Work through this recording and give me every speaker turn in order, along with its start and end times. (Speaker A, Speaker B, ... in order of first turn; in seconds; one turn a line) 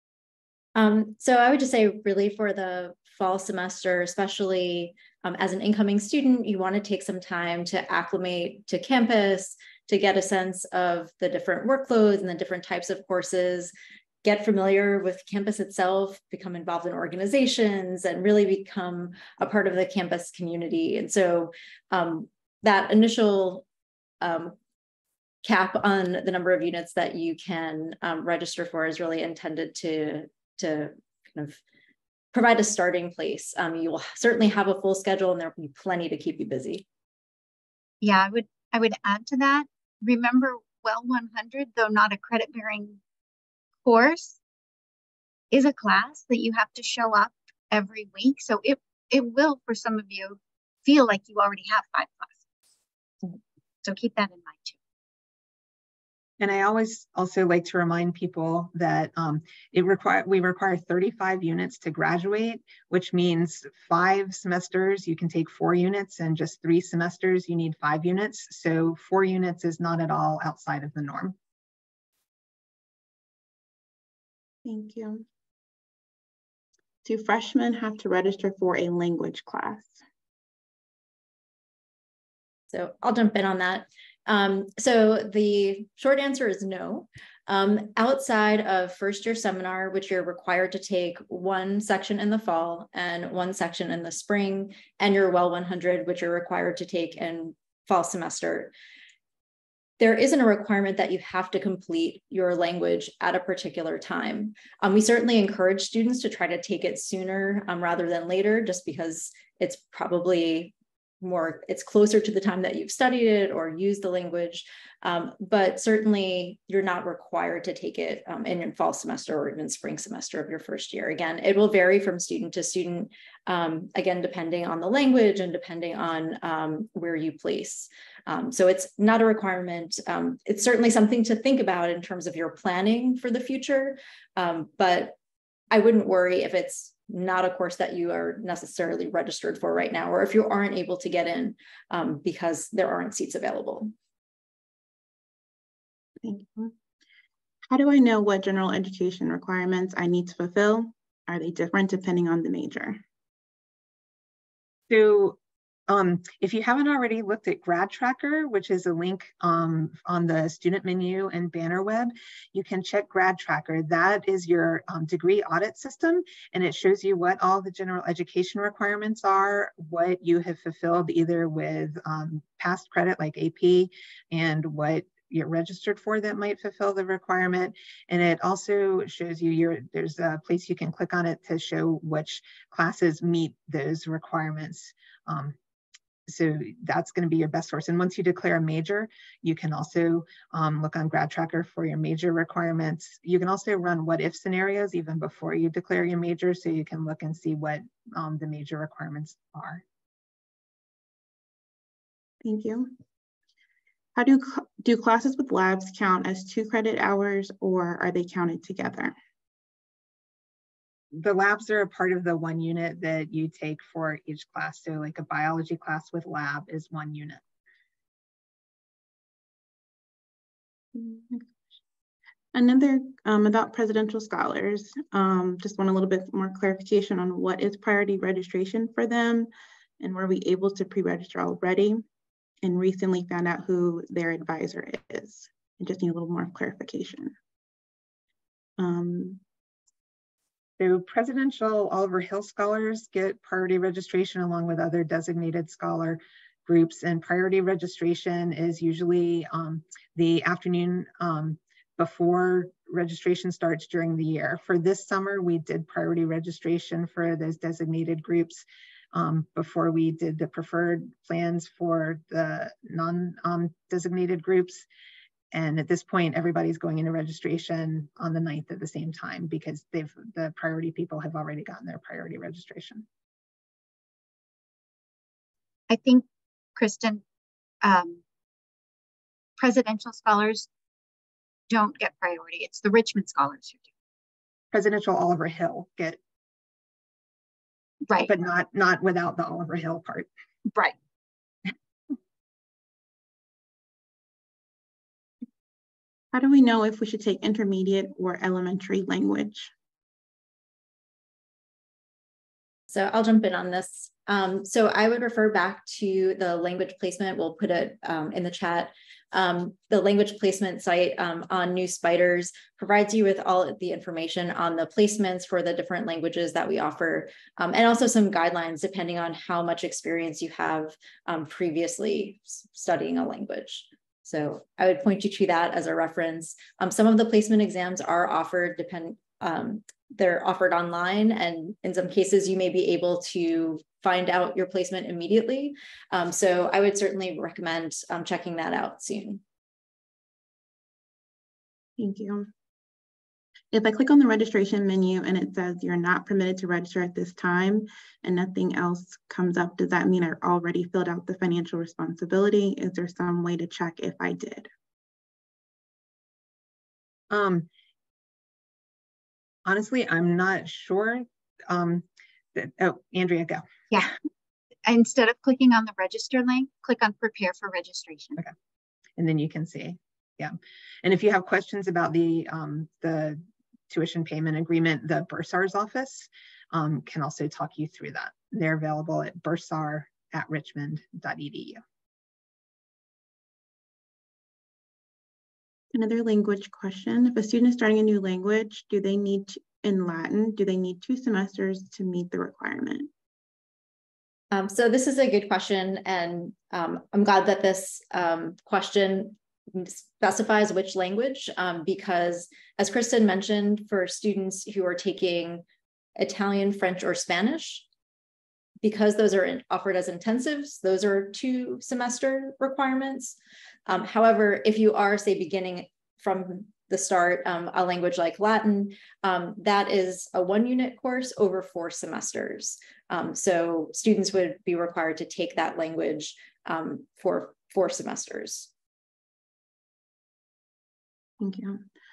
Speaker A: 0.8-13.7
Speaker A: 14.2-23.6
Speaker A: 24.2-24.6
Speaker A: 25.4-31.6
Speaker A: 32.3-36.8
Speaker B: 38.0-43.0
Speaker B: 43.8-44.4
Speaker B: 45.5-52.4
Speaker B: 53.8-54.8
Speaker C: 56.4-71.3
Speaker D: 74.6-75.2
Speaker D: 77.0-80.0
Speaker A: 82.7-98.7
Speaker A: 100.0-135.2
Speaker A: 135.7-143.9
Speaker D: 146.2-146.7
Speaker D: 147.7-153.0
Speaker C: 154.9-185.5
Speaker C: 186.3-199.8
Speaker D: 202.4-202.9
Speaker D: 204.1-209.1
Speaker C: 211.2-217.4
Speaker D: 220.9-221.5
Speaker D: 222.5-232.0
Speaker D: 232.6-237.3
Speaker D: 238.8-239.4
Speaker C: 240.8-264.9
Speaker C: 265.5-273.1
Speaker B: 275.9-276.2
Speaker B: 276.8-277.2
Speaker B: 277.8-278.2
Speaker B: 279.6-280.7
Speaker B: 281.7-283.9
Speaker C: 284.7-286.2
Speaker B: 288.1-288.3
Speaker C: 288.2-290.3
Speaker D: 296.3-299.7
Speaker A: 302.9-339.4
Speaker D: 342.0-342.5
Speaker D: 343.7-354.7
Speaker C: 357.3-357.7
Speaker C: 359.6-363.7
Speaker B: 364.8-368.4
Speaker C: 369.2-381.8
Speaker D: 385.9-393.1
Speaker A: 394.5-405.6
Speaker A: 406.2-407.9
Speaker A: 408.8-413.4
Speaker A: 413.9-428.7
Speaker D: 431.4-431.8